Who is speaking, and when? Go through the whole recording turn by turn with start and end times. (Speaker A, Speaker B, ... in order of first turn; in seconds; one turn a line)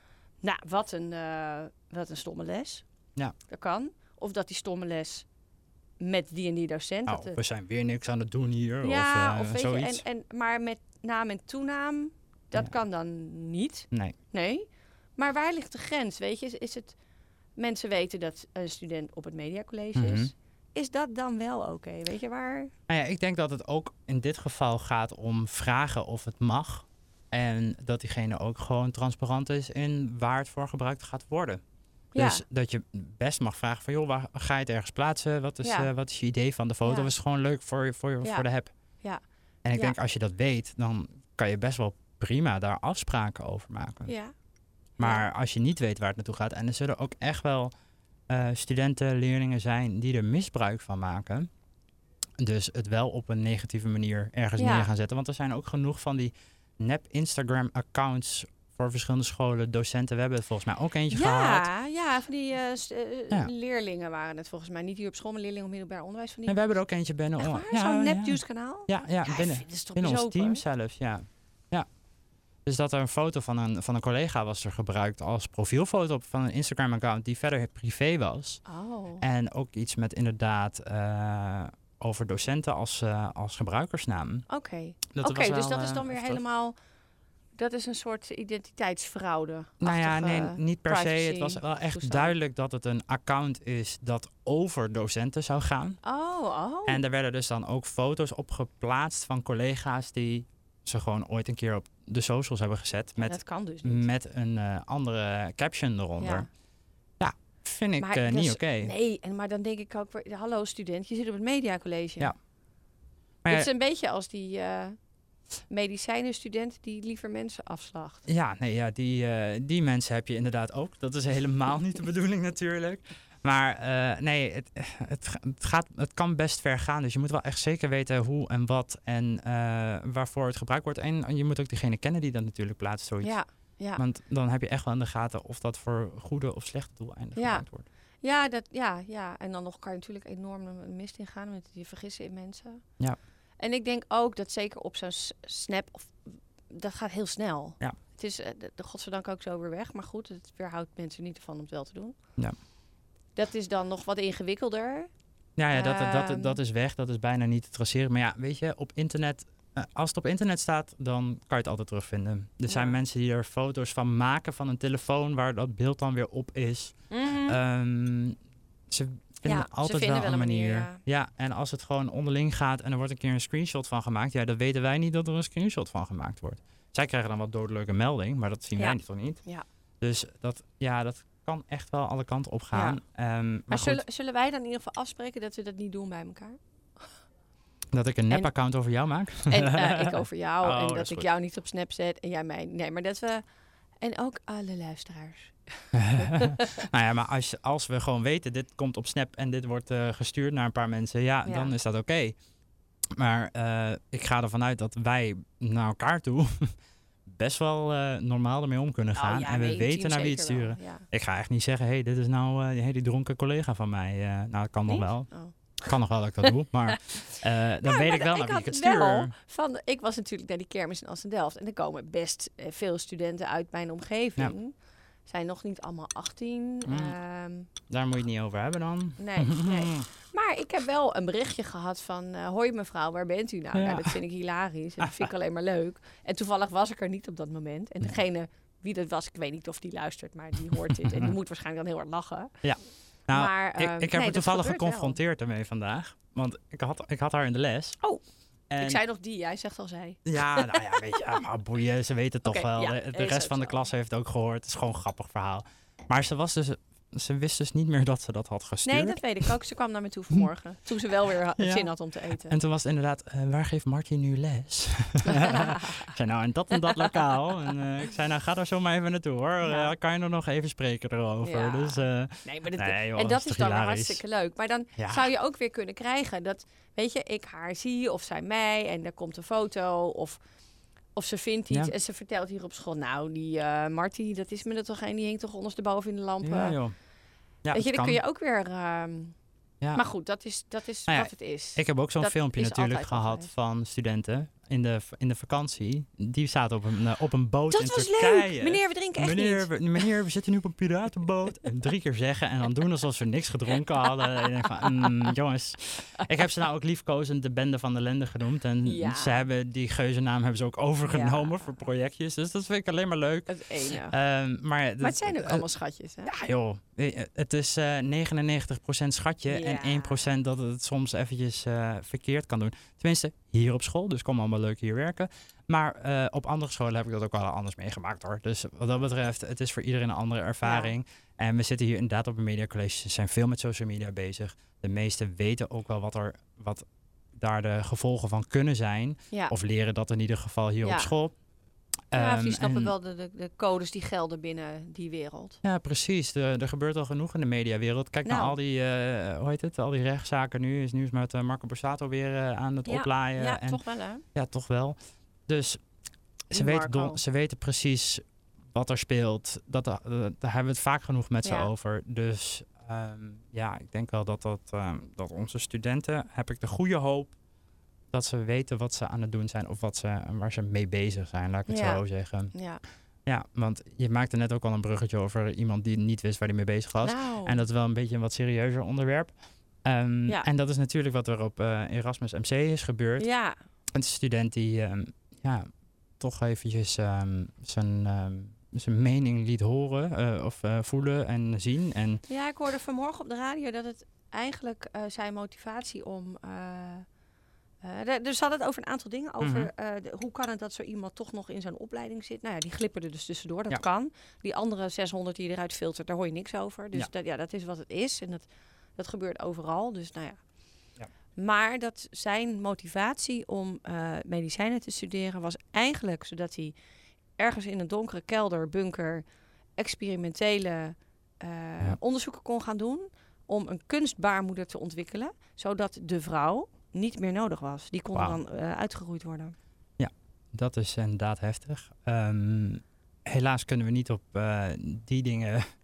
Speaker A: 0.4-2.9
Speaker A: 3.4-5.2
Speaker A: 6.0-7.4
Speaker B: 7.1-10.0
Speaker A: 8.8-17.0
Speaker A: 17.6-22.7
Speaker B: 19.9-20.3
Speaker B: 22.9-31.6
Speaker A: 32.1-32.4
Speaker B: 32.1-38.7
Speaker A: 35.6-35.9
Speaker A: 36.8-37.1
Speaker B: 39.6-44.1
Speaker A: 44.0-44.3
Speaker A: 45.0-45.2
Speaker B: 45.0-47.7
Speaker B: 48.3-51.5
Speaker B: 52.4-61.7
Speaker A: 54.6-54.9
Speaker A: 61.1-66.8
Speaker B: 66.5-71.9
Speaker A: 67.4-70.6
Speaker B: 72.6-78.6
Speaker A: 78.6-79.2
Speaker B: 79.2-84.5
Speaker A: 84.5-86.7
Speaker B: 85.1-86.4
Speaker A: 87.5-92.3
Speaker B: 89.8-96.0
Speaker A: 96.0-97.0
Speaker B: 96.8-106.5
Speaker A: 103.2-104.1
Speaker A: 106.2-106.5
Speaker B: 107.2-108.9
Speaker A: 108.0-112.3
Speaker B: 113.4-113.7
Speaker A: 113.5-115.0
Speaker A: 115.7-118.2
Speaker B: 118.2-133.4
Speaker A: 133.2-134.0
Speaker B: 133.9-137.8
Speaker A: 137.3-137.7
Speaker A: 138.2-142.8
Speaker A: 143.6-152.2
Speaker A: 153.3-155.1
Speaker B: 155.6-168.4
Speaker A: 155.7-156.6
Speaker A: 162.7-162.9
Speaker A: 167.1-167.6
Speaker B: 168.9-179.4
Speaker A: 169.4-171.0
Speaker A: 178.8-179.6
Speaker B: 180.0-184.0
Speaker A: 182.7-183.0
Speaker A: 183.7-186.6
Speaker B: 187.9-191.3
Speaker A: 189.5-193.4
Speaker A: 194.0-196.8
Speaker B: 195.9-202.3
Speaker A: 201.4-201.7
Speaker B: 203.1-206.7
Speaker B: 207.2-219.3
Speaker A: 209.2-211.1
Speaker A: 214.9-215.9
Speaker A: 216.4-224.7
Speaker A: 225.2-227.7
Speaker B: 226.8-227.2
Speaker B: 227.9-230.0
Speaker A: 229.2-242.5
Speaker B: 233.7-234.1
Speaker B: 241.0-241.3
Speaker B: 242.6-248.0
Speaker A: 243.3-245.2
Speaker B: 248.7-249.0
Speaker A: 248.8-251.4
Speaker B: 250.2-259.5
Speaker A: 252.4-253.8
Speaker A: 258.9-262.5
Speaker B: 261.6-261.9
Speaker B: 262.5-274.2
Speaker A: 265.3-266.1
Speaker A: 269.6-269.9
Speaker A: 271.4-280.4
Speaker B: 275.0-275.2
Speaker A: 281.1-286.8
Speaker B: 286.4-286.9
Speaker B: 287.6-288.2
Speaker A: 287.7-289.3
Speaker A: 289.9-293.5
Speaker B: 291.1-315.6
Speaker A: 297.7-300.1
Speaker A: 304.8-305.3
Speaker A: 308.8-309.4
Speaker A: 311.1-311.7
Speaker A: 313.5-314.1
Speaker A: 315.0-316.3
Speaker B: 316.2-341.4
Speaker A: 319.5-320.3
Speaker A: 330.6-330.9
Speaker A: 340.8-341.1
Speaker B: 342.1-342.9
Speaker A: 342.1-345.6
Speaker B: 345.6-353.8
Speaker A: 348.2-348.5
Speaker A: 352.9-354.2
Speaker B: 354.3-354.9
Speaker B: 355.5-355.8
Speaker B: 356.5-367.3
Speaker A: 356.5-357.2
Speaker A: 361.4-361.7
Speaker B: 368.1-372.6
Speaker A: 371.7-372.8
Speaker B: 373.2-383.3
Speaker A: 377.0-377.6
Speaker A: 383.2-383.6
Speaker B: 383.9-385.7
Speaker B: 386.2-392.2
Speaker A: 392.3-397.1
Speaker A: 397.8-410.4
Speaker B: 399.4-399.7
Speaker A: 411.4-416.7
Speaker A: 417.4-419.2
Speaker A: 419.8-429.5
Speaker B: 430.0-435.7